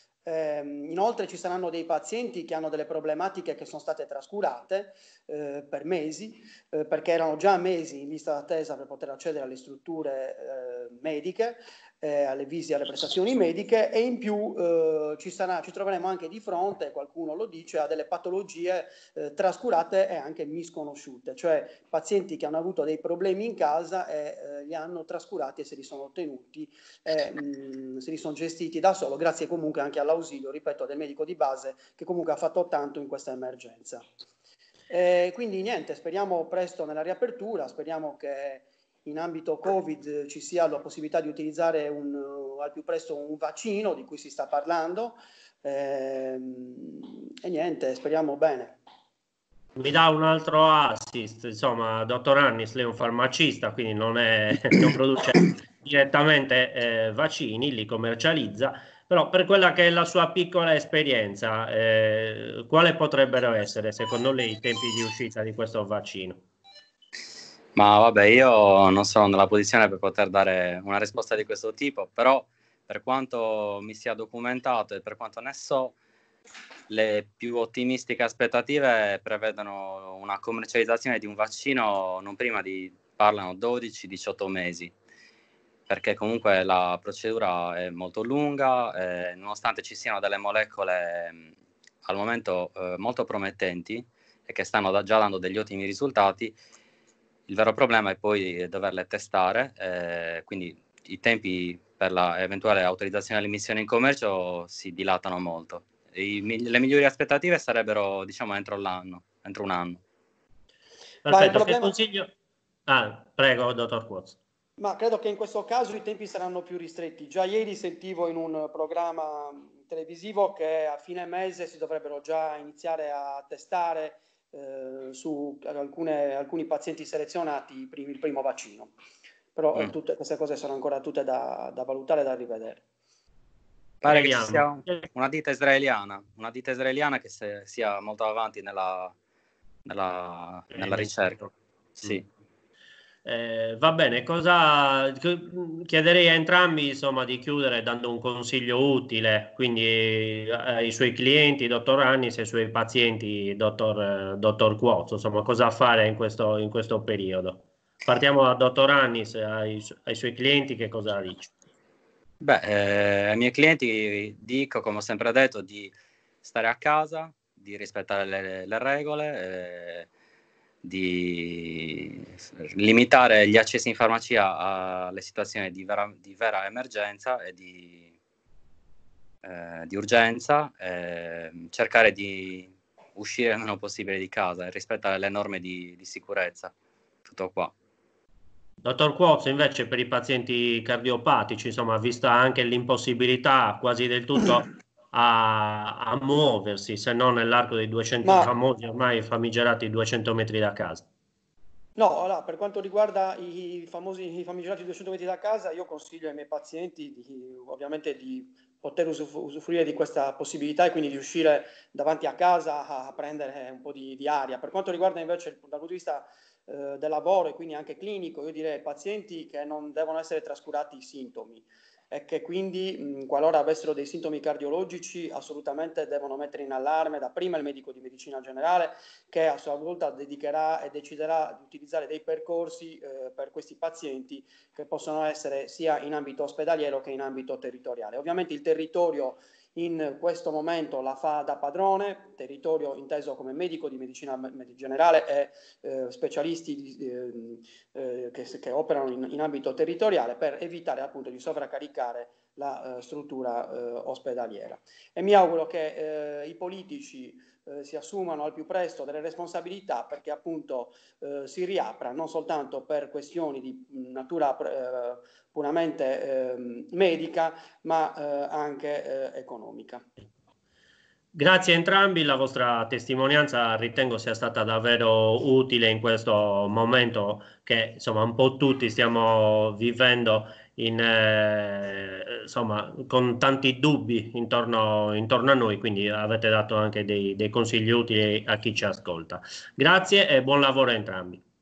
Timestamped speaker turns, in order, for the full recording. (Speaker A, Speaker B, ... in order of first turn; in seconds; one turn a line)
Speaker A: 0.2-34.0
Speaker A: 34.9-48.8
Speaker B: 49.8-66.4
Speaker C: 67.8-76.0
Speaker C: 76.9-84.9
Speaker C: 85.9-91.5
Speaker C: 92.0-96.5
Speaker C: 97.5-110.0
Speaker B: 111.2-112.3
Speaker A: 111.3-111.9
Speaker B: 112.9-114.4
Speaker A: 114.8-128.9
Speaker A: 129.6-132.8
Speaker C: 134.0-139.1
Speaker B: 134.1-135.0
Speaker C: 139.9-141.4
Speaker B: 140.8-141.5
Speaker C: 142.0-142.2
Speaker B: 143.2-161.5
Speaker C: 162.4-165.9
Speaker C: 166.4-170.1
Speaker C: 170.8-178.1
Speaker C: 179.4-186.7
Speaker C: 187.2-187.7
Speaker B: 188.8-201.1
Speaker A: 198.2-198.5
Speaker A: 202.0-270.0
Speaker B: 271.4-291.4